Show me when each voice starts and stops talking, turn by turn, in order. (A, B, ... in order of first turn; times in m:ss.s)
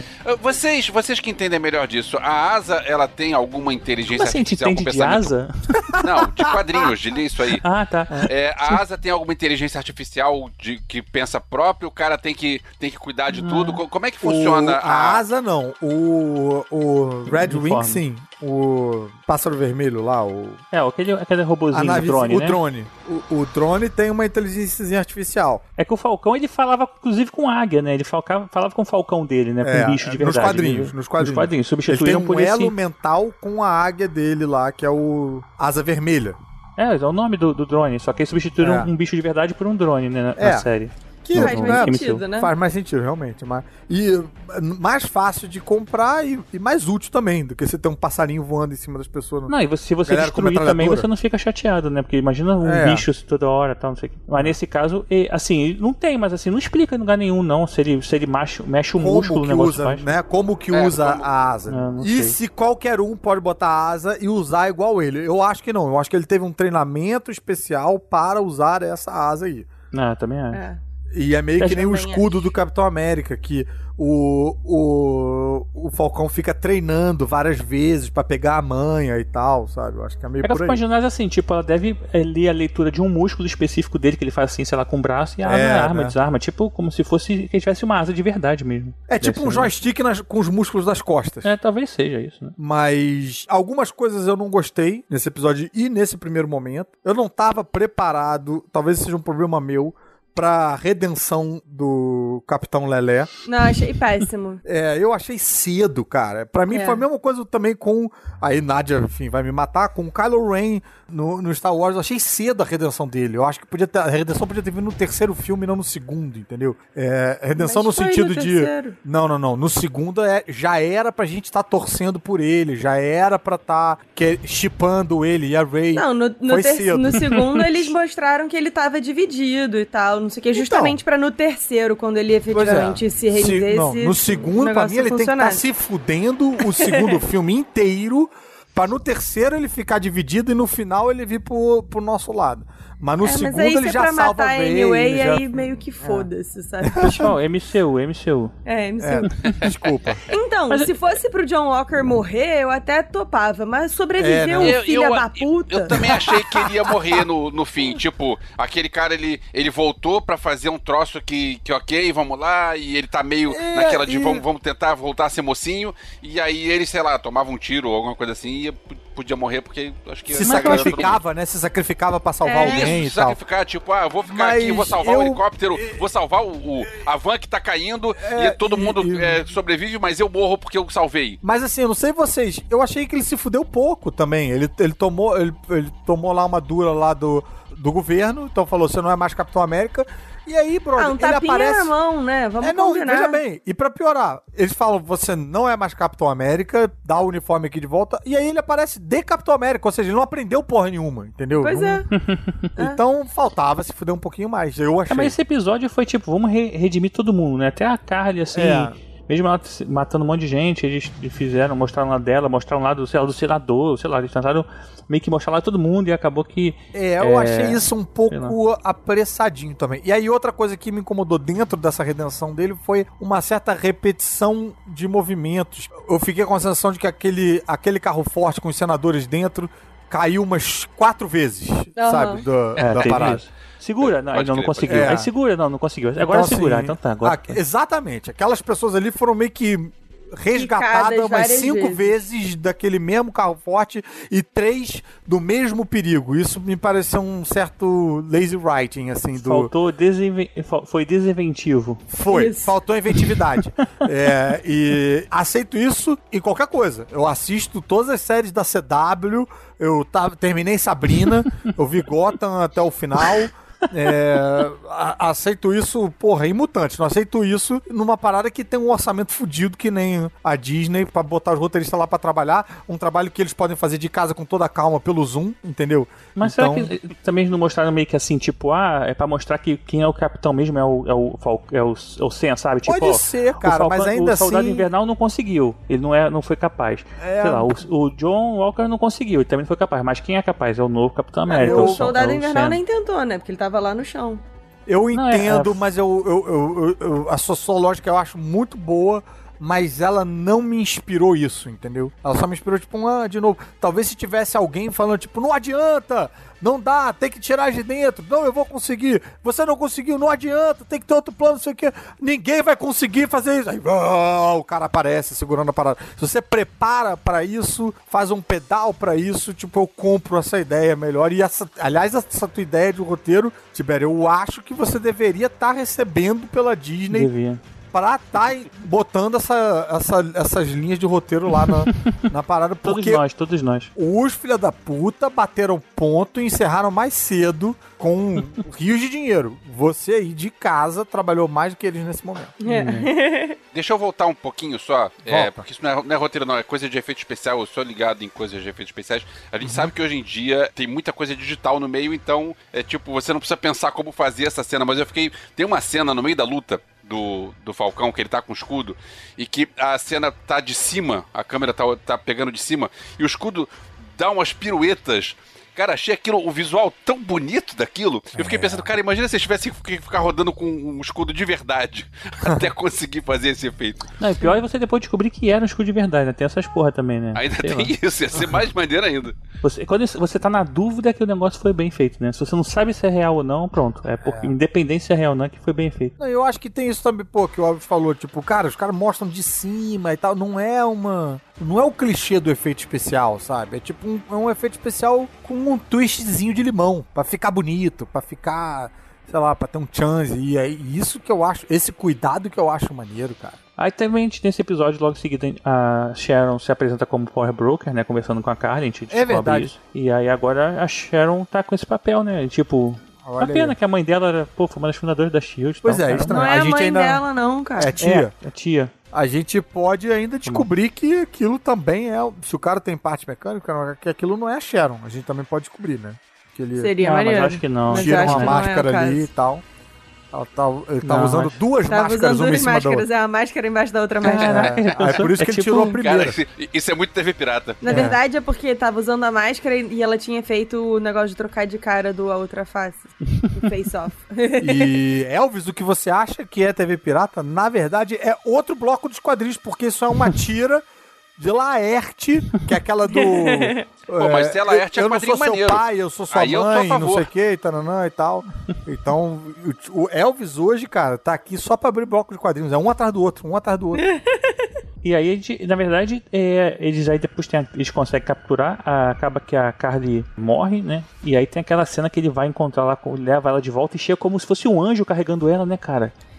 0:00.2-0:05.3 A
0:04.1-0:05.7 B
0:05.7-0:06.9 C
0:06.0-0:07.6 A
0:07.6-0:08.3 B
0:08.3-0:15.2 A
0:13.3-0:13.8 B
0:14.2-0:20.6 C
0:17.3-0:18.0 B
0:20.7-0:22.6 B
0:21.7-0:25.6 C
0:25.8-0:32.7 B
0:29.6-0:36.4 C
0:36.8-0:42.2 B
0:38.6-0:38.9 C
0:40.4-0:40.7 C
0:41.2-0:49.5 C
0:41.3-0:42.5 D
0:49.5-1:00.1 B
0:50.1-0:51.1 C
0:52.6-0:53.0 C
0:59.0-1:09.7 C
1:00.7-1:01.2 A
1:01.7-1:02.4 B
1:09.9-1:10.6 B
1:10.5-1:10.8 D
1:11.1-1:20.8 C
1:11.7-1:12.3 D
1:20.4-1:29.7 B
1:25.4-1:26.1 C
1:29.1-1:31.5 C
1:31.4-1:32.6 B
1:32.6-1:43.3 C
1:43.4-1:44.6 D
1:44.6-2:07.8 C
1:46.7-1:47.0 D
1:57.6-1:59.0 D
2:05.9-2:15.6 D
2:10.5-2:11.0 C
2:12.5-2:25.6 C
2:16.6-2:17.2 D
2:23.2-2:27.2 D
2:26.8-2:27.3 C
2:27.0-2:28.5 B
2:28.6-2:29.4 D
2:29.0-2:30.3 C
2:29.3-2:29.7 B
2:30.3-2:36.2 D
2:30.7-2:30.9 B
2:34.2-2:34.8 C
2:34.6-2:51.2 A
2:35.9-2:37.0 C
2:43.5-2:44.4 C
2:50.3-2:53.4 C
2:50.4-2:51.1 B
2:52.4-2:53.0 D
2:52.6-3:01.4 A
2:54.3-2:56.0 C
2:58.2-2:59.4 C
3:01.4-3:11.9 C
3:11.0-3:13.4 D
3:12.6-3:22.0 C
3:21.6-3:22.0 D
3:22.1-3:22.7 B
3:22.8-3:25.4 C
3:25.1-3:38.6 B
3:28.5-3:28.9 C
3:36.9-3:53.4 C
3:52.0-3:52.4 D
3:52.8-3:53.1 A
3:52.8-3:57.6 B
3:54.0-3:55.2 A
3:54.8-3:55.3 C
3:56.3-4:09.7 C
4:00.5-4:02.1 D
4:09.4-4:12.0 B
4:12.1-4:36.9 C
4:12.3-4:12.7 D
4:36.4-4:52.8 B
4:42.8-4:44.9 C
4:47.2-4:47.8 C
4:51.5-4:54.4 D
4:51.6-4:52.2 C
4:54.9-5:27.3 C
4:55.1-4:55.8 B
5:27.1-5:27.6 B
5:27.9-5:33.2 C
5:31.6-5:32.1 B
5:32.8-5:33.9 B
5:33.9-5:42.5 C
5:42.6-5:43.6 D
5:42.7-5:43.1 B
5:43.7-6:14.1 A
5:45.2-5:45.6 C
5:49.6-5:49.9 C
6:08.4-6:08.8 C
6:14.2-6:17.9 B
6:17.3-6:19.3 A
6:19.6-6:26.1 B
6:24.2-6:24.5 C
6:26.2-6:43.6 C
6:43.8-6:56.4 B
6:49.1-6:49.7 C
6:53.2-6:53.8 C
6:55.8-6:57.2 C
6:56.3-6:58.0 D
6:57.8-6:58.3 C
6:58.0-6:58.9 B
6:59.1-7:06.9 C
7:06.7-7:09.3 D
7:07.0-7:08.6 B
7:07.9-7:09.6 C
7:10.3-7:13.1 C
7:11.0-7:11.6 B
7:11.9-7:14.9 D
7:14.2-7:16.0 B
7:14.2-7:16.4 C
7:16.0-7:17.8 A
7:17.8-7:24.9 D
7:17.9-7:18.2 C
7:24.6-7:30.8 C
7:31.4-7:44.0 C
7:33.1-7:33.9 D
7:34.2-7:37.3 A
7:43.9-7:44.7 D
7:45.0-7:56.1 B